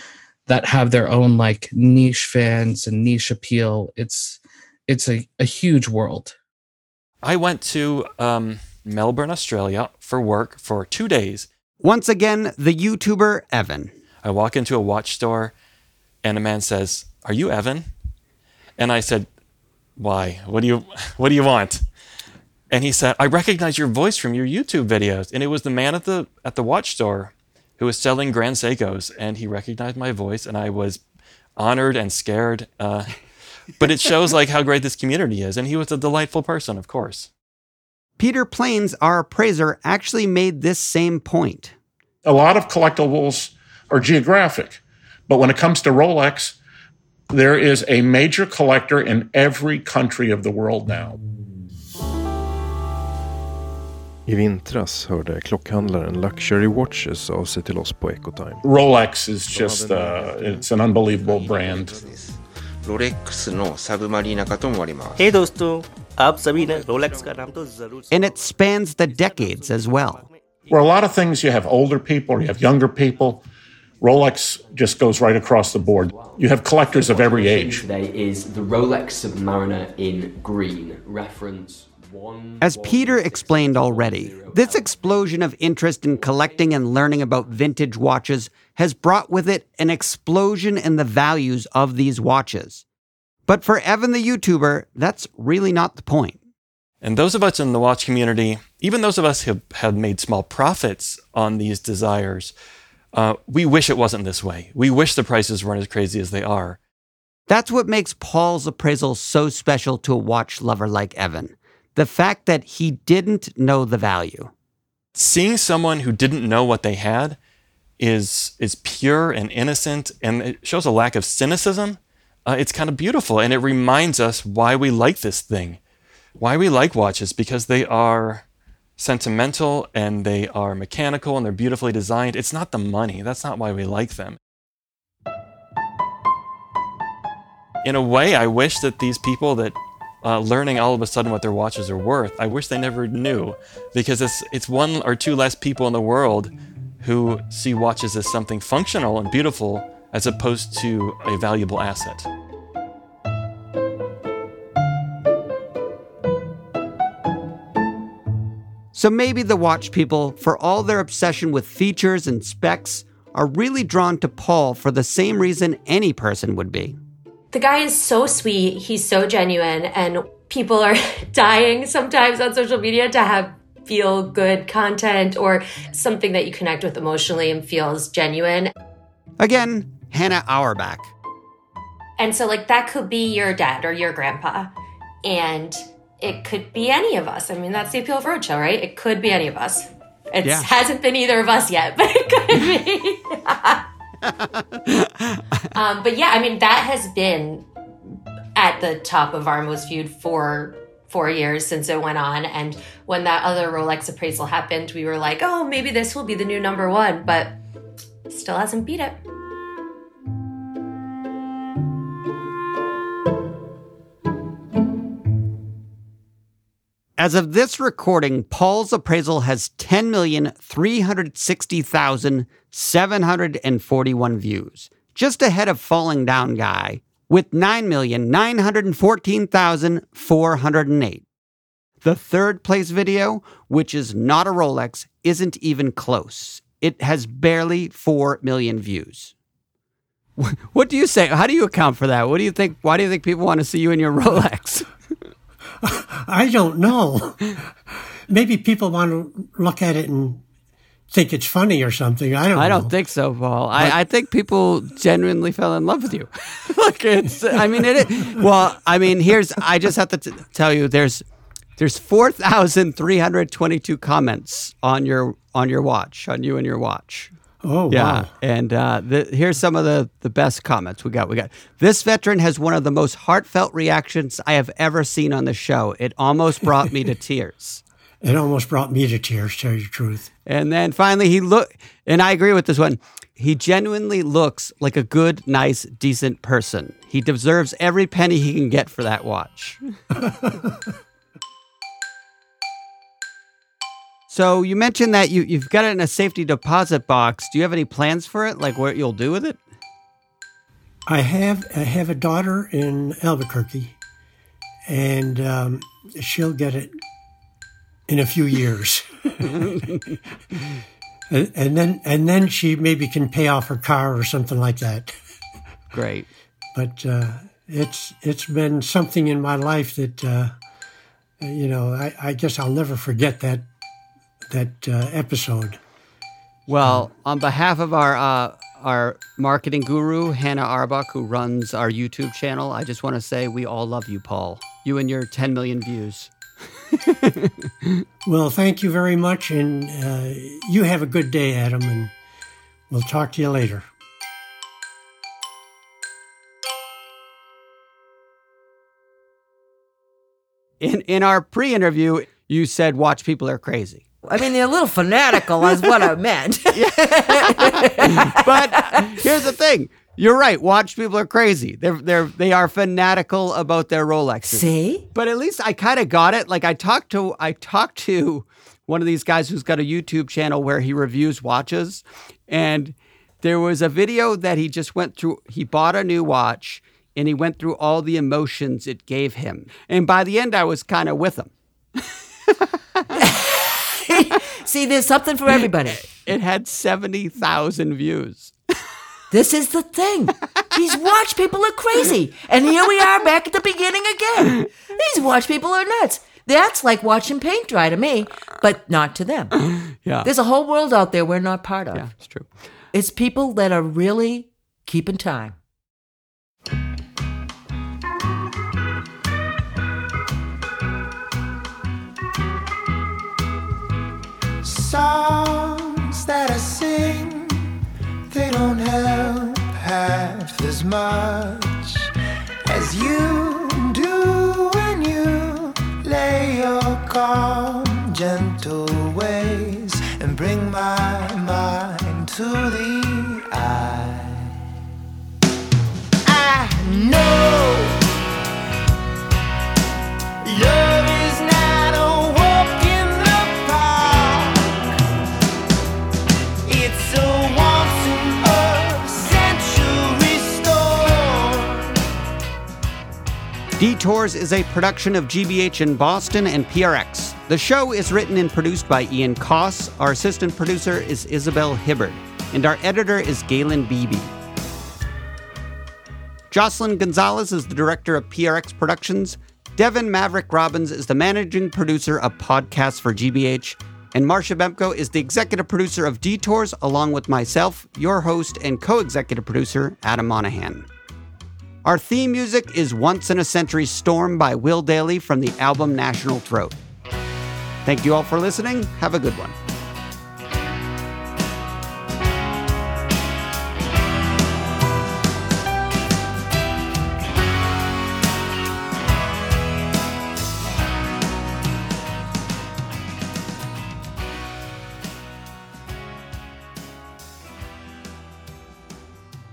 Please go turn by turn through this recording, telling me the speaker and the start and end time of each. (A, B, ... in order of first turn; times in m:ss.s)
0:00.5-0:06.4 A
0:07.2-0:11.5 B
0:11.8-0:13.9 C
0:14.2-0:15.6 B
0:16.2-0:17.9 B
0:18.8-0:19.3 B
0:20.0-0:21.8 B
0:22.7-0:31.0 B
0:31.6-0:33.2 B
0:33.8-0:37.3 B
0:38.2-0:41.7 C
0:42.2-0:46.6 D
0:47.3-0:51.2 D
0:54.3-0:58.6 E
0:58.6-1:02.0 D
0:59.7-1:00.3 E
1:01.6-1:05.2 F
1:05.2-1:08.0 G
1:08.1-1:10.2 C
1:10.7-1:13.4 D
1:14.0-1:17.9 D
1:16.1-1:25.2 H
1:22.6-1:32.8 C
1:33.5-1:36.4 C
1:37.0-1:42.5 B
1:43.1-1:46.8 B
1:47.5-1:54.5 C
1:55.2-1:57.4 B
1:58.0-2:05.8 B
2:06.4-2:08.4 B
2:09.0-2:14.4 B
2:17.8-2:32.3 B
2:39.0-2:47.0 C
2:47.5-2:58.7 I
2:59.4-3:01.1 C
3:02.2-3:04.7 I
3:05.2-3:13.8 I
3:10.4-3:10.7 C
3:14.2-3:15.7 C
3:15.8-3:17.7 I
3:18.6-3:27.6 I
3:28.3-3:29.2 I
3:37.2-3:51.2 C
3:52.0-3:59.3 C
4:00.4-4:04.9 C
4:05.8-4:10.4 J
4:11.1-4:12.9 J
4:12.5-4:21.2 C
4:18.1-4:18.4 J
4:21.8-4:27.3 C
4:27.6-4:28.3 J
4:27.9-4:37.8 C
4:38.2-4:40.3 J
4:40.5-4:49.8 C
4:50.3-4:50.7 J
4:54.3-4:59.6 C
5:01.1-5:04.0 J
5:04.9-5:07.0 J
5:08.1-5:09.7 J
5:11.3-5:15.2 J
5:15.9-5:16.3 C
5:16.8-5:20.6 J
5:21.4-5:23.7 J
5:24.5-5:25.8 J
5:26.7-5:36.3 C
5:36.9-5:38.0 C
5:38.3-5:42.1 J
5:42.9-5:43.9 J
5:50.8-5:54.1 C
5:54.2-5:59.2 K
5:55.6-5:56.0 C
5:56.7-6:21.5 C
6:04.5-6:05.0 K
6:23.2-6:26.1 K
6:26.1-6:28.5 C
6:29.3-6:39.6 K
6:40.0-6:40.3 C
6:40.2-6:42.1 K
6:41.9-6:42.5 C
6:42.9-6:45.6 K
6:54.6-6:57.6 L
6:58.3-7:02.1 L
7:02.6-7:14.5 L
7:16.3-7:18.0 L
7:20.4-7:24.7 L
7:26.7-7:31.9 L
7:33.8-7:44.3 C
7:46.5-8:00.9 C
8:01.8-8:06.8 C
8:07.8-8:09.6 C